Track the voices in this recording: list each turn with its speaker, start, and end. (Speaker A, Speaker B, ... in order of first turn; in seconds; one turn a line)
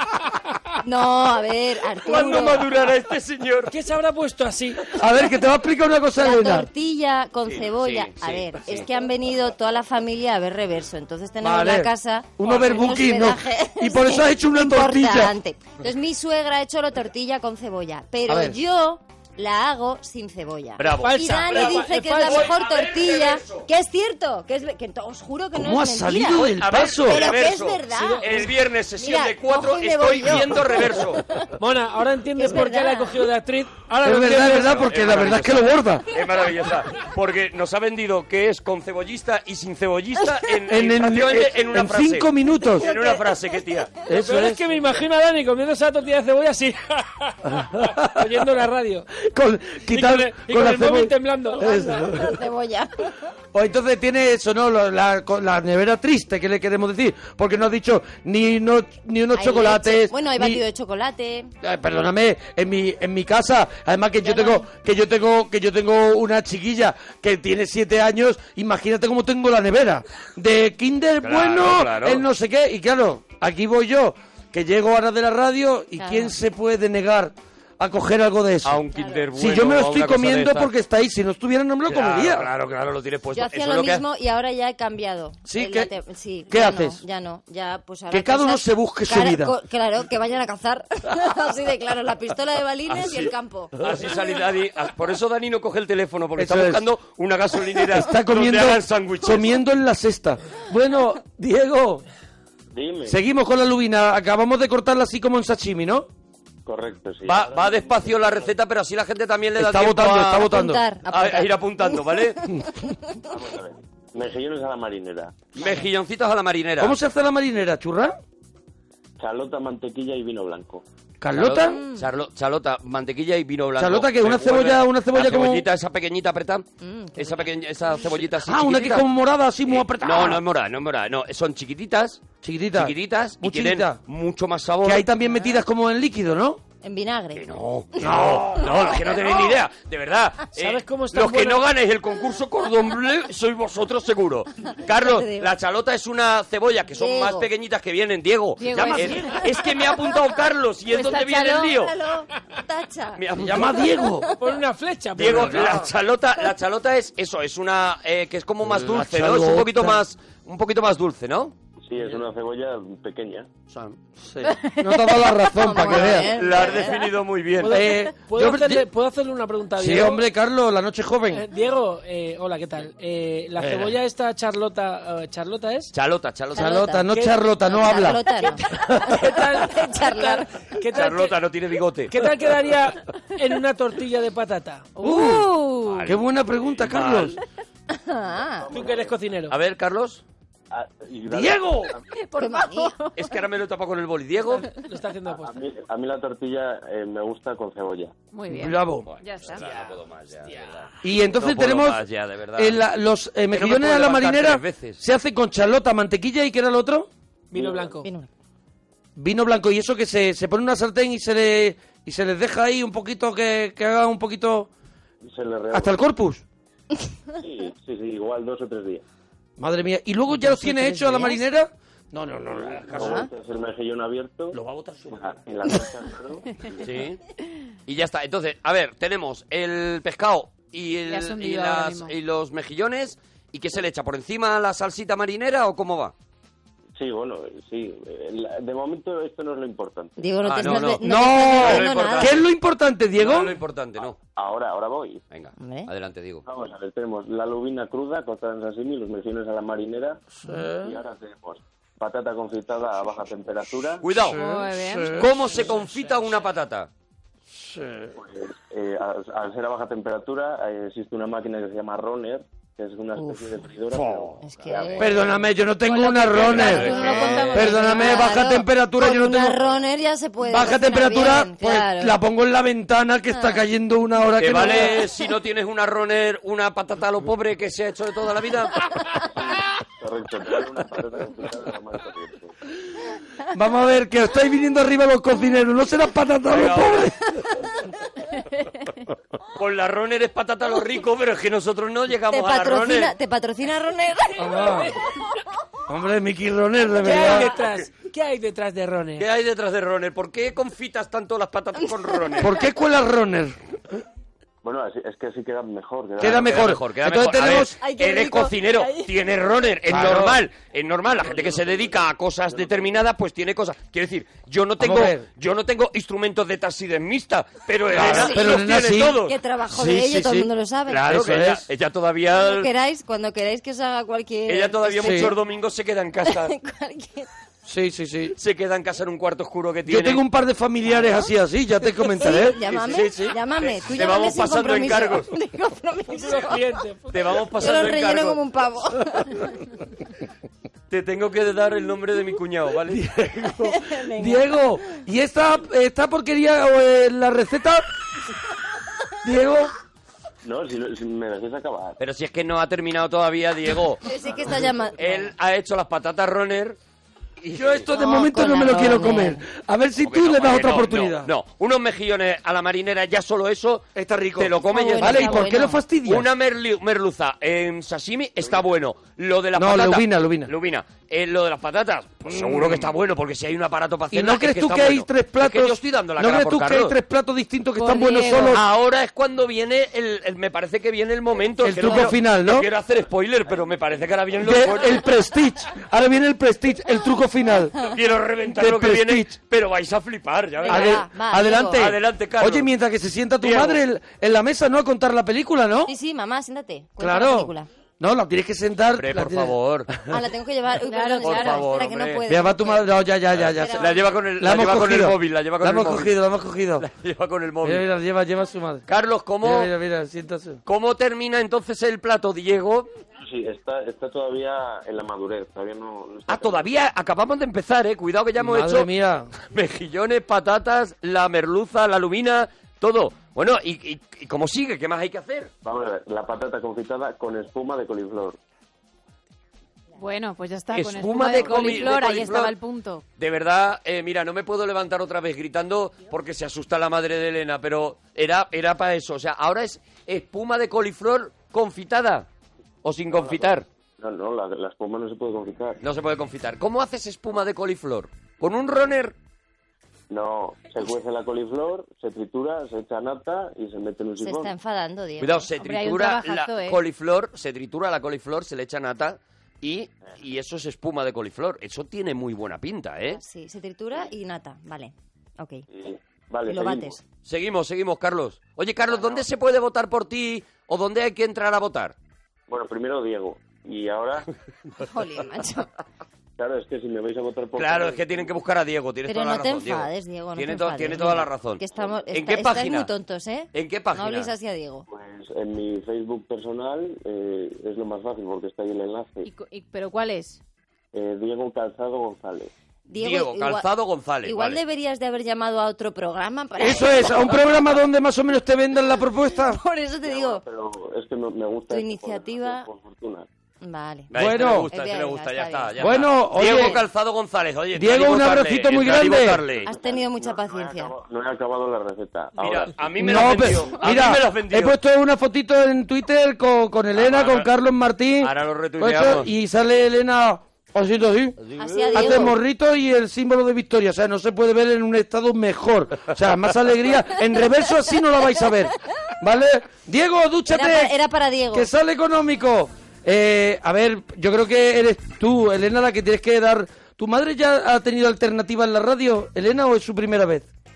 Speaker A: 0.8-2.7
Speaker B: 2.0-3.8
Speaker C: 3.7-5.0
Speaker D: 4.9-6.7
Speaker A: 6.2-31.1
Speaker B: 7.5-8.9
Speaker D: 11.4-15.3
Speaker D: 18.3-18.6
Speaker B: 20.8-23.7
Speaker C: 20.9-22.5
Speaker D: 25.5-27.3
Speaker B: 26.3-31.2
Speaker C: 27.9-28.5
Speaker C: 31.6-34.9
Speaker A: 32.4-33.2
Speaker D: 34.0-36.2
Speaker B: 34.5-43.9
Speaker D: 40.7-42.9
Speaker A: 42.7-43.2
Speaker D: 44.1-44.6
Speaker C: 44.1-49.1
Speaker D: 47.5-48.4
Speaker D: 49.2-52.4
Speaker C: 49.9-51.8
Speaker A: 51.6-53.2
Speaker D: 53.5-60.6
Speaker A: 59.3-61.5
Speaker D: 61.6-78.8
Speaker A: 64.2-64.7
Speaker B: 71.2-72.2
Speaker A: 76.0-76.3
Speaker B: 78.6-80.7
Speaker A: 79.0-79.2
Speaker D: 79.3-82.5
Speaker B: 81.9-84.0
Speaker A: 83.3-93.8
Speaker D: 85.5-85.9
Speaker D: 86.5-87.0
Speaker D: 88.1-89.5
Speaker B: 92.9-99.6
Speaker D: 96.4-96.9
Speaker D: 97.8-102.0
Speaker E: 102.7-103.2
Speaker D: 103.1-106.1
Speaker E: 106.7-108.5
Speaker B: 107.3-110.5
Speaker D: 109.6-110.8
Speaker A: 110.4-113.2
Speaker B: 111.1-112.5
Speaker E: 113.2-115.5
Speaker B: 115.5-117.0
Speaker D: 116.8-118.2
Speaker E: 119.2-120.8
Speaker D: 121.2-121.8
Speaker B: 121.3-126.7
Speaker A: 121.7-122.0
Speaker D: 123.8-125.7
Speaker A: 126.8-127.5
Speaker B: 127.2-129.1
Speaker D: 128.4-130.4
Speaker B: 129.7-135.1
Speaker D: 132.4-134.0
Speaker D: 134.8-136.6
Speaker A: 136.8-138.0
Speaker B: 137.3-151.9
Speaker D: 138.0-139.0
Speaker C: 140.6-141.7
Speaker A: 144.7-145.5
Speaker A: 146.9-147.5
Speaker F: 148.6-149.4
Speaker A: 149.0-149.3
Speaker F: 150.9-151.7
Speaker A: 151.7-154.4
Speaker B: 153.2-153.9
Speaker D: 153.4-154.3
Speaker C: 154.4-155.7
Speaker B: 155.2-161.5
Speaker D: 155.2-155.9
Speaker D: 158.6-160.0
Speaker E: 161.8-163.5
Speaker B: 163.7-164.0
Speaker D: 164.2-166.3
Speaker A: 165.4-167.0
Speaker B: 166.1-167.8
Speaker C: 167.6-170.2
Speaker D: 167.7-168.9
Speaker D: 169.8-171.5
Speaker C: 171.3-175.9
Speaker D: 173.6-174.0
Speaker B: 175.9-176.8
Speaker D: 176.5-178.2
Speaker A: 176.6-177.1
Speaker C: 177.1-177.4
Speaker A: 177.7-180.5
Speaker D: 178.8-179.2
Speaker C: 178.9-181.4
Speaker B: 180.9-182.1
Speaker C: 182.1-184.9
Speaker F: 185.0-185.9
Speaker D: 185.0-187.3
Speaker B: 185.8-187.4
Speaker A: 187.9-188.7
Speaker E: 188.6-189.2
Speaker C: 188.7-189.6
Speaker B: 189.5-190.2
Speaker E: 190.7-192.0
Speaker D: 191.3-191.9
Speaker F: 192.2-193.2
Speaker A: 192.3-193.0
Speaker B: 193.2-194.7
Speaker C: 194.7-195.6
Speaker E: 195.3-198.1
Speaker F: 198.3-199.7
Speaker D: 198.5-199.1
Speaker B: 199.1-202.8
Speaker D: 201.0-202.0
Speaker D: 202.6-207.1
Speaker B: 203.5-205.0
Speaker C: 207.5-208.1
Speaker E: 207.5-208.0
Speaker A: 208.0-208.3
Speaker D: 209.2-214.7
Speaker E: 215.3-216.0
Speaker D: 215.7-216.4
Speaker E: 217.4-219.0
Speaker D: 219.6-223.3
Speaker C: 220.4-221.4
Speaker E: 222.5-224.6
Speaker A: 223.0-223.3
Speaker D: 224.5-225.4
Speaker E: 225.1-226.8
Speaker B: 226.8-227.2
Speaker B: 227.9-236.1
Speaker F: 231.1-232.1
Speaker E: 237.0-240.2
Speaker A: 240.2-242.4
Speaker B: 240.4-242.5
Speaker D: 241.0-243.6
Speaker B: 243.2-244.2
Speaker E: 244.4-245.2
Speaker B: 245.3-246.4
Speaker A: 245.6-245.9
Speaker E: 246.4-254.1
Speaker D: 250.4-251.0
Speaker B: 254.0-254.4
Speaker D: 254.2-255.3
Speaker F: 254.3-255.3
Speaker B: 255.1-256.9
Speaker D: 257.6-258.1
Speaker E: 258.2-265.4
Speaker D: 263.9-264.3
Speaker A: 264.4-265.2
Speaker D: 265.0-267.0
Speaker F: 265.9-268.2
Speaker B: 266.2-267.8
Speaker A: 266.5-272.2
Speaker D: 267.5-269.6
Speaker D: 270.4-275.0
Speaker A: 273.3-273.6
Speaker B: 274.4-279.2
Speaker E: 279.3-282.5
Speaker D: 283.5-287.4
Speaker B: 286.5-287.1
Speaker B: 289.5-293.1
Speaker A: 292.3-294.9
Speaker D: 294.4-295.0
Speaker D: 295.9-297.5
Speaker C: 297.0-299.3
Speaker B: 297.1-297.9
Speaker B: 299.2-302.6
Speaker D: 302.4-303.6
Speaker E: 304.6-306.8
Speaker D: 306.2-307.7
Speaker B: 306.2-319.4
Speaker A: 307.8-309.1
Speaker D: 309.9-310.4
Speaker E: 311.2-312.0
Speaker D: 314.8-315.3
Speaker D: 317.9-320.5
Speaker A: 317.9-321.1
Speaker B: 320.9-322.7
Speaker D: 321.1-321.6
Speaker A: 322.3-325.4
Speaker B: 324.5-326.5
Speaker D: 325.0-325.3
Speaker A: 326.2-327.3
Speaker D: 327.6-328.4
Speaker B: 328.4-330.2
Speaker D: 329.9-333.4
Speaker A: 331.9-336.8
Speaker B: 332.6-335.3
Speaker C: 336.1-337.3
Speaker B: 337.1-338.4
Speaker A: 337.6-339.6
Speaker B: 340.9-343.1
Speaker D: 342.9-347.9
Speaker A: 343.6-344.5
Speaker D: 349.2-349.7
Speaker E: 350.4-352.0
Speaker B: 352.0-354.1
Speaker A: 354.1-355.3
Speaker B: 355.0-356.8
Speaker B: 357.4-357.9
Speaker D: 357.5-361.3
Speaker A: 357.9-359.4
Speaker B: 360.0-376.9
Speaker D: 363.9-366.3
Speaker A: 364.7-365.8
Speaker D: 369.6-370.5
Speaker D: 372.3-372.9
Speaker D: 374.1-378.6
Speaker F: 377.8-378.6
Speaker B: 378.4-385.0
Speaker D: 381.6-382.7
Speaker D: 384.4-387.8
Speaker B: 387.8-391.0
Speaker D: 388.5-389.3
Speaker A: 390.6-391.9
Speaker D: 390.7-395.9
Speaker B: 391.7-392.7
Speaker B: 393.4-393.8
Speaker A: 395.9-397.7
Speaker D: 397.0-399.6
Speaker B: 398.9-400.0
Speaker A: 400.1-404.1
Speaker F: 400.8-401.7
Speaker B: 401.2-402.2
Speaker D: 402.3-406.9
Speaker B: 403.4-406.2
Speaker B: 406.8-407.9
Speaker D: 407.6-408.9
Speaker B: 408.9-409.7
Speaker D: 409.4-410.6
Speaker B: 410.7-412.9
Speaker E: 413.2-416.7
Speaker B: 416.3-418.9
Speaker D: 418.4-419.3
Speaker B: 419.4-425.5
Speaker E: 425.6-428.4
Speaker F: 430.0-433.0
Speaker B: 430.7-432.5
Speaker E: 431.3-431.9
Speaker B: 433.2-442.3
Speaker B: 442.8-443.7
Speaker E: 443.1-445.8
Speaker B: 445.8-449.2
Speaker E: 450.1-454.5
Speaker A: 454.2-455.5
Speaker B: 455.2-463.2
Speaker F: 455.6-456.8
Speaker A: 463.1-465.6
Speaker E: 465.7-467.0
Speaker A: 466.5-467.0
Speaker B: 467.3-471.9
Speaker E: 468.9-469.2
Speaker E: 472.5-474.3
Speaker A: 474.8-475.7
Speaker E: 476.4-478.4
Speaker B: 477.6-482.9
Speaker A: 479.1-484.9
Speaker B: 483.5-484.3
Speaker E: 484.9-489.3
Speaker F: 489.2-490.4
Speaker E: 490.9-492.5
Speaker A: 492.9-493.7
Speaker B: 493.0-494.6
Speaker A: 494.2-497.6
Speaker D: 496.6-499.6
Speaker A: 499.4-500.4
Speaker E: 500.0-503.3
Speaker A: 501.7-502.7
Speaker A: 503.6-506.1
Speaker B: 504.1-509.7
Speaker D: 504.1-504.7
Speaker D: 505.8-506.8
Speaker D: 507.8-509.4
Speaker A: 509.6-510.9
Speaker E: 509.7-513.8
Speaker B: 512.4-514.8
Speaker D: 513.0-521.4
Speaker B: 517.0-517.5
Speaker B: 518.2-519.3
Speaker B: 521.4-522.3
Speaker A: 521.6-522.4
Speaker D: 521.9-530.9
Speaker A: 530.5-531.7
Speaker D: 531.5-540.5